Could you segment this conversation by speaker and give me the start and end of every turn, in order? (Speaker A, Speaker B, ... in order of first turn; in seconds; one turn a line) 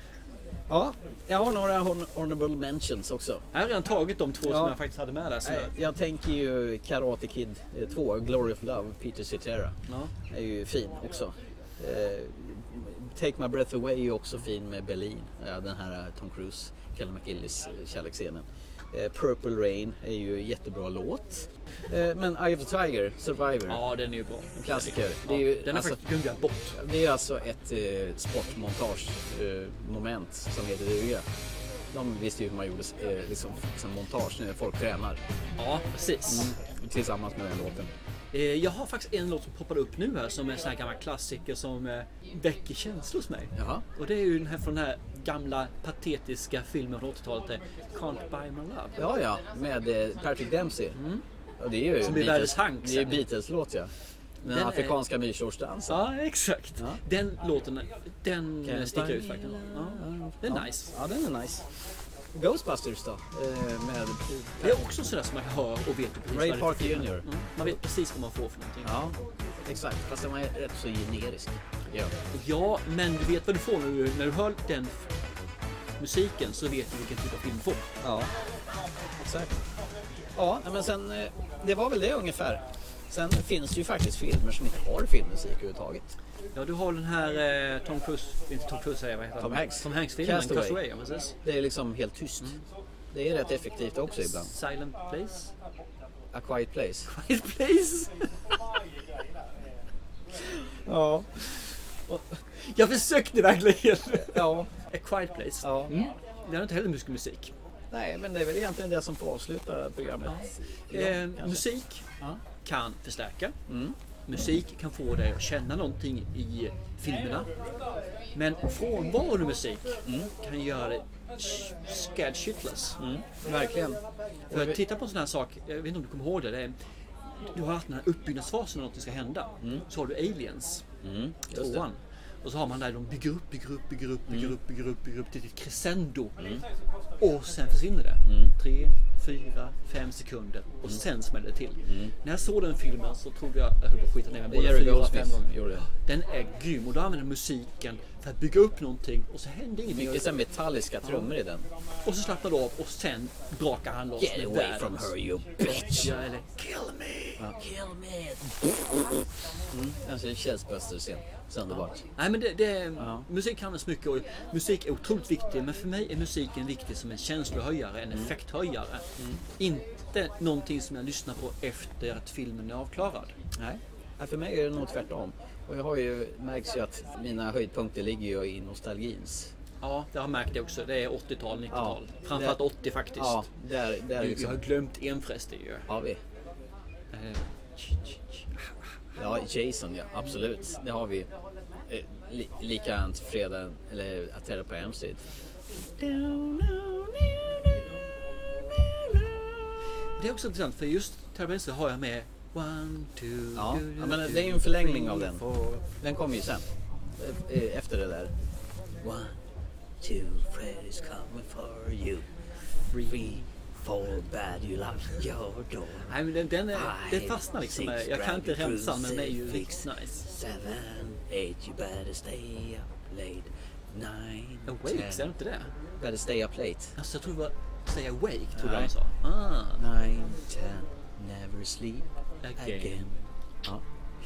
Speaker A: 0.7-3.5
Speaker B: 3.5-5.7
Speaker A: 4.4-4.8
Speaker A: 5.4-9.8
Speaker B: 9.9-10.1
Speaker A: 10.3-23.9
Speaker B: 23.7-26.8
Speaker A: 24.5-26.0
Speaker A: 26.7-31.2
Speaker A: 31.9-35.2
Speaker B: 35.6-36.5
Speaker A: 36.3-37.9
Speaker B: 38.3-49.0
Speaker A: 43.5-43.8
Speaker A: 49.0-51.0
Speaker B: 50.9-51.2
Speaker A: 51.6-56.0
Speaker B: 52.0-53.2
Speaker B: 54.5-55.0
Speaker B: 55.9-60.9
Speaker A: 58.6-61.7
Speaker A: 62.3-65.0
Speaker B: 64.6-69.0
Speaker A: 66.3-67.8
Speaker A: 68.8-72.1
Speaker B: 72.3-75.1
Speaker B: 76.0-77.9
Speaker A: 78.0-78.3
Speaker A: 79.2-79.5
Speaker A: 80.3-86.1
Speaker B: 86.5-91.3
Speaker A: 89.4-90.8
Speaker A: 91.4-92.5
Speaker A: 93.1-94.5
Speaker B: 94.1-95.5
Speaker A: 96.3-97.1
Speaker B: 97.1-98.3
Speaker A: 100.4-102.4
Speaker B: 102.5-107.5
Speaker A: 104.1-104.7
Speaker A: 105.6-106.1
Speaker A: 107.9-111.7
Speaker B: 110.2-112.0
Speaker B: 112.6-113.5
Speaker A: 113.7-114.0
Speaker B: 114.3-117.5
Speaker B: 118.3-123.0
Speaker A: 120.0-120.3
Speaker A: 123.0-124.8
Speaker B: 124.5-126.8
Speaker B: 127.5-130.8
Speaker A: 129.6-129.8
Speaker A: 131.0-131.8
Speaker B: 131.5-136.4
Speaker A: 136.4-136.6
Speaker B: 137.2-150.4
Speaker A: 138.2-138.5
Speaker A: 141.9-142.1
Speaker A: 144.5-145.9
Speaker A: 149.8-151.7
Speaker B: 151.0-151.3
Speaker B: 152.0-157.4
Speaker A: 154.2-156.2
Speaker A: 157.3-162.0
Speaker B: 162.1-173.3
Speaker A: 163.0-163.3
Speaker A: 169.2-169.4
Speaker A: 173.5-179.5
Speaker B: 179.8-183.5
Speaker A: 181.7-182.6
Speaker A: 183.2-184.6
Speaker B: 184.1-185.9
Speaker A: 185.9-186.2
Speaker B: 187.1-188.6
Speaker A: 189.2-191.3
Speaker A: 191.9-195.2
Speaker A: 195.8-197.8
Speaker A: 198.9-199.4
Speaker B: 200.2-205.9
Speaker A: 203.5-208.3
Speaker A: 209.0-209.4
Speaker A: 210.0-212.3
Speaker B: 212.8-213.5
Speaker A: 213.0-216.2
Speaker B: 216.0-220.2
Speaker A: 216.7-225.3
Speaker B: 224.7-225.7
Speaker A: 225.9-226.9
Speaker B: 227.0-229.8
Speaker A: 228.5-228.9
Speaker A: 229.8-233.8
Speaker B: 232.4-233.2